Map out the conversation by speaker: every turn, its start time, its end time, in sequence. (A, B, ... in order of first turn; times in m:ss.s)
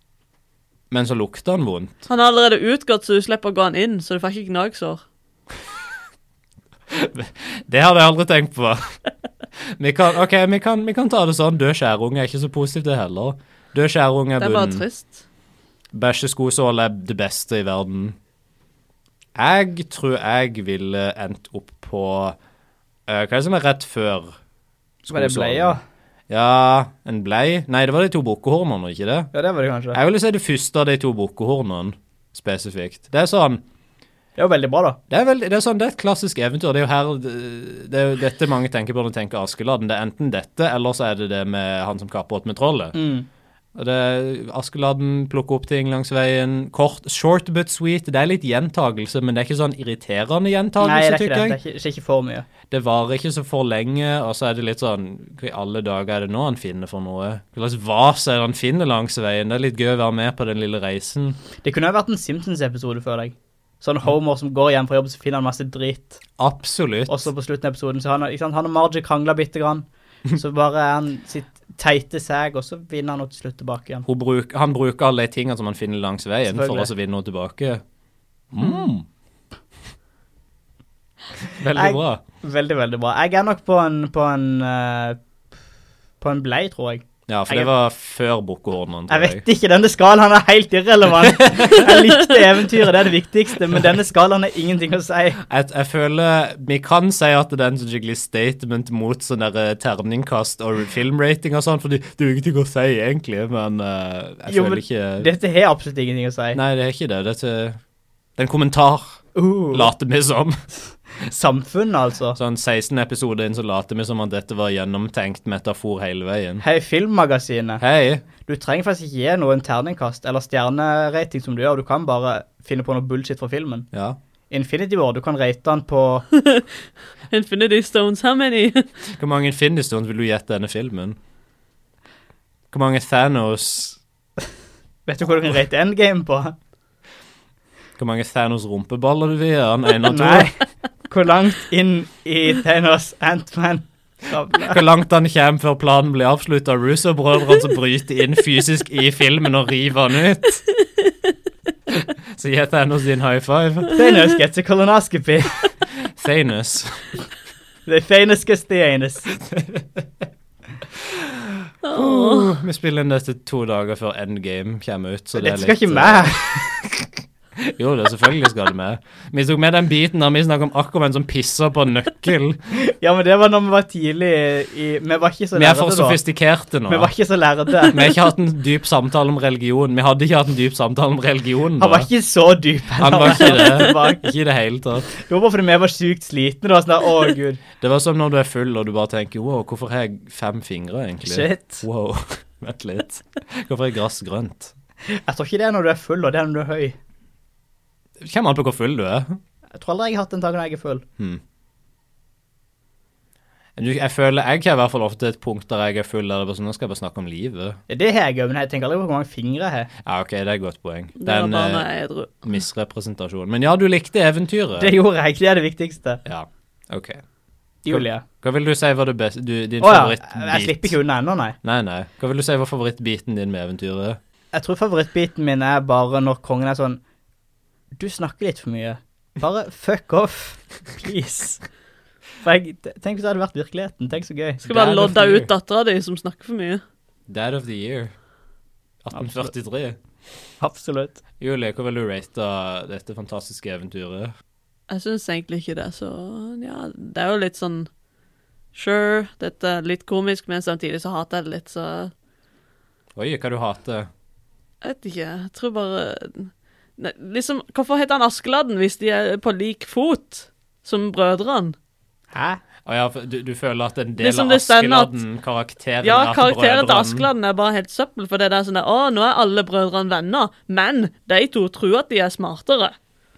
0:00.9-0:01.9 A
0:02.1-0:05.0 B
0:06.9-0:09.0 A
0:09.8-0:14.8 A
0:14.4-0:15.2 B
0:15.9-0:18.2 A
0:19.4-0:22.4 A
0:23.1-0:24.4 A
0:25.0-0:29.3 A
0:25.1-0:25.8 C
0:29.3-0:30.0 C
0:29.9-0:33.6 A
0:34.4-0:35.0 C
0:35.1-0:43.0 A
0:42.9-0:43.3 C
0:43.8-0:51.6 A
0:50.8-0:52.4 C
0:52.7-1:01.4 A
1:01.6-1:06.2 C
1:06.4-1:07.2 A
1:07.1-1:14.0 C
1:14.0-1:17.8 A
1:16.4-1:16.9 C
1:18.5-1:19.0 A
1:21.5-1:22.2 A
1:21.7-1:25.2 C
1:26.2-1:27.7 C
1:27.3-1:29.4 A
1:29.1-1:35.4 C
1:31.2-1:32.2 A
1:35.4-1:45.3 A
1:44.5-1:46.6 C
1:46.5-1:47.8 A
1:48.4-1:49.2 A
1:49.3-1:49.9 C
1:49.7-1:50.6 A
1:51.2-1:52.4 C
1:52.3-1:56.6 A
1:56.6-1:57.8 C
1:57.8-1:58.2 A
1:58.4-2:03.9 C
2:03.9-2:04.2 A
2:04.5-2:06.2 C
2:06.3-2:06.7 B
2:07.3-2:08.9 B
2:09.2-2:11.2 A
2:12.7-2:14.0 A
2:15.1-2:16.5 C
2:18.0-2:20.5 A
2:20.0-2:24.8 C
2:24.5-2:30.6 A
2:31.9-2:34.0 A
2:33.9-2:35.7 C
2:36.0-2:37.1 A
2:37.8-2:39.3 C
2:39.4-2:40.0 A
2:40.9-2:52.6 A
2:41.8-2:42.6 B
2:45.4-2:46.6 C
2:52.7-2:56.2 C
2:55.6-2:57.1 A
2:56.9-2:58.0 C
2:57.9-3:02.1 A
3:01.8-3:04.2 C
3:03.0-3:05.1 A
3:05.1-3:07.6 C
3:07.8-3:14.7 A
3:11.2-3:11.8 C
3:15.0-3:17.0 C
3:18.2-3:19.4 A
3:19.7-3:21.0 C
3:23.8-3:27.8 A
3:27.9-3:29.9 C
3:30.0-3:31.9 A
3:31.2-3:32.5 B
3:32.4-3:34.9 A
3:34.8-3:36.2 C
3:36.2-3:37.2 A
3:37.8-3:38.2 C
3:37.9-3:41.0 A
3:39.8-3:41.6 C
3:41.6-3:44.2 A
3:44.5-3:47.0 C
3:48.0-3:51.6 C
3:52.4-3:54.7 C
3:54.7-3:56.8 B
3:54.7-3:55.5 A
3:57.3-3:58.1 A
3:59.0-4:00.0 A
3:59.1-3:59.5 C
4:00.6-4:01.2 C
4:01.4-4:04.3 A
4:04.9-4:07.9 B
4:08.7-4:12.1 B
4:13.2-4:14.1 A
4:14.8-4:21.8 B
4:22.3-4:22.6 C
4:22.8-4:27.3 A
4:24.2-4:25.2 B
4:26.0-4:32.9 B